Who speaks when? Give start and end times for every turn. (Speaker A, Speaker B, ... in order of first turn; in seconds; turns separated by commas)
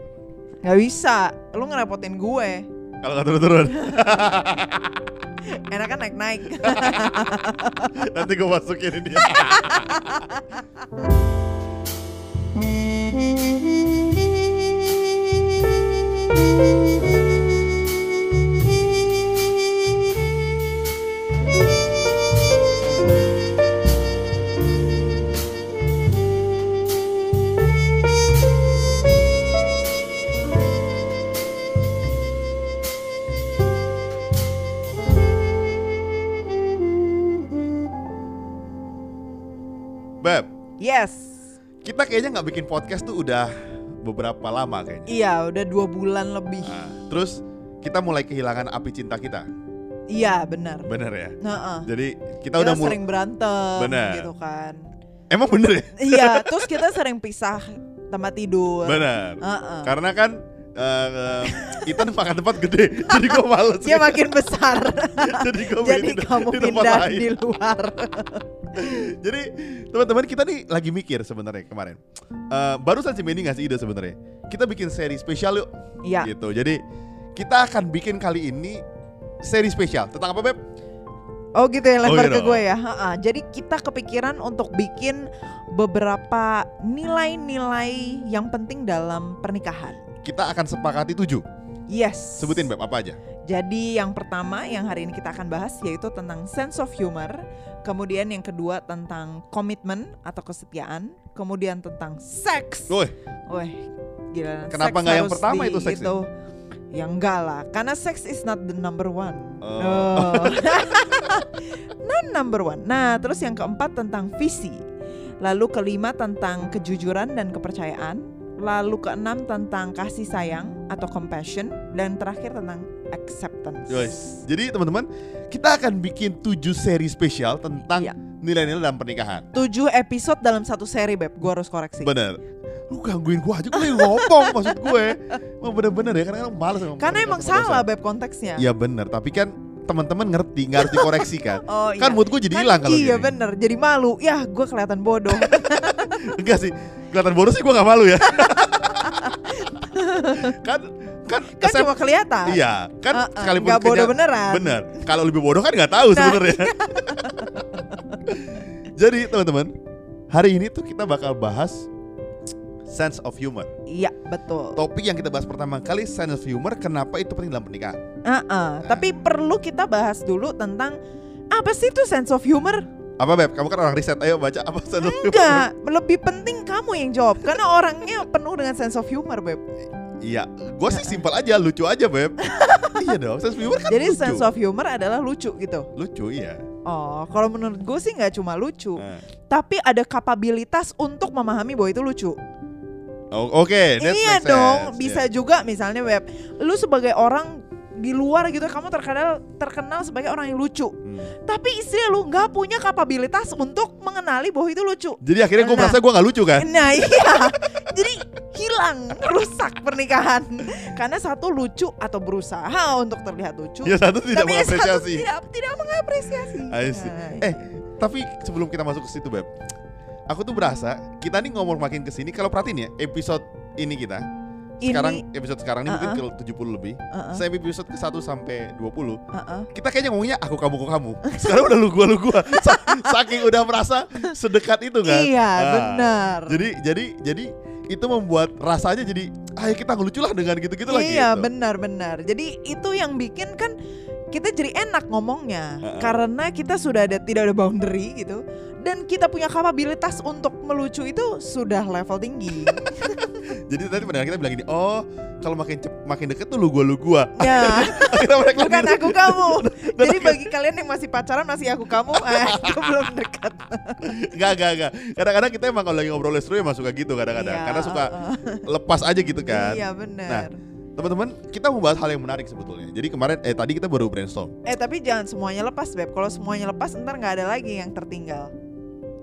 Speaker A: 0.6-2.7, Speaker B: 3.0-4.9, Speaker A: 3.7-4.1, Speaker A: 5.5-8.1, Speaker B: 6.6-7.1, Speaker B: 7.8-10.3, Speaker A: 9.2-10.6, Speaker B: 40.2-40.5, Speaker A: 40.8-41.4, Speaker B: 41.8-45.1, Speaker A: 45.1-46.8, Speaker B: 46.6-49.5, Speaker A: 50.1-50.9, Speaker B: 50.9-53.0, Speaker A: 51.4-51.9, Speaker A: 52.5-54.8, Speaker B: 53.8-54.3, Speaker B: 55.3-56.8, Speaker A: 56.0-59.9, Speaker B: 58.9-67.3, Speaker A: 61.5-62.0, Speaker A: 63.1-68.4, Speaker B: 68.8-72.0, Speaker B: 72.5-75.7, Speaker A: 76.0-76.3, Speaker B: 76.2-76.8, Speaker B: 77.4-78.8, Speaker B: 79.5-80.6, Speaker A: 81.5-90.0, Speaker B: 82.0-82.6, Speaker B: 90.2-91.5, Speaker A: 91.9-92.7, Speaker B: 92.4-93.2, Speaker A: 93.5-103.0, Speaker B: 102.9-103.1, Speaker A: 103.5-106.3, Speaker B: 104.7-106.1, Speaker A: 106.9-114.8, Speaker B: 109.6-110.8, Speaker A: 115.4-124.2, Speaker B: 123.9-129.5, Speaker A: 129.5-132.1, Speaker B: 132.0-137.9, Speaker A: 133.8-135.2, Speaker A: 137.0-138.7, Speaker B: 138.6-143.3, Speaker A: 140.8-146.3, Speaker B: 145.4-149.7, Speaker A: 148.2-150.6, Speaker B: 150.4-151.9, Speaker A: 151.6-155.1, Speaker B: 152.5-157.6, Speaker A: 156.1-157.8, Speaker B: 158.3-159.7, Speaker B: 160.3-161.9, Speaker B: 162.9-163.7, Speaker A: 163.9-164.8, Speaker B: 164.8-168.0, Speaker A: 168.2-171.0, Speaker A: 171.5-172.9, Speaker B: 173.2-175.7, Speaker A: 175.0-179.6, Speaker B: 180.2-184.5, Speaker A: 182.4-183.1, Speaker A: 183.9-185.9, Speaker B: 185.9-186.6, Speaker A: 186.9-192.4, Speaker B: 189.0-189.2, Speaker B: 193.3-195.2, Speaker A: 194.0-206.0, Speaker B: 201.1-201.3, Speaker B: 205.2-207.4, Speaker A: 206.6-217.6, Speaker B: 213.8-215.3, Speaker B: 216.7-219.5, Speaker B: 220.3-224.2, Speaker A: 224.8-225.2, Speaker B: 224.8-229.2, Speaker A: 225.9-226.2, Speaker A: 227.1-227.4, Speaker A: 229.3-229.7, Speaker B: 229.7-241.5, Speaker A: 231.2-231.6, Speaker A: 232.5-233.4, Speaker A: 235.0-236.7, Speaker A: 240.9-243.8, Speaker A: 244.3-253.4, Speaker B: 245.8-246.2, Speaker B: 253.5-260.5, Speaker A: 257.4-264.0, Speaker B: 262.2-262.8, Speaker B: 264.0-268.1, Speaker A: 267.3-268.7, Speaker B: 268.7-274.5, Speaker A: 269.5-270.6, Speaker A: 274.6-278.5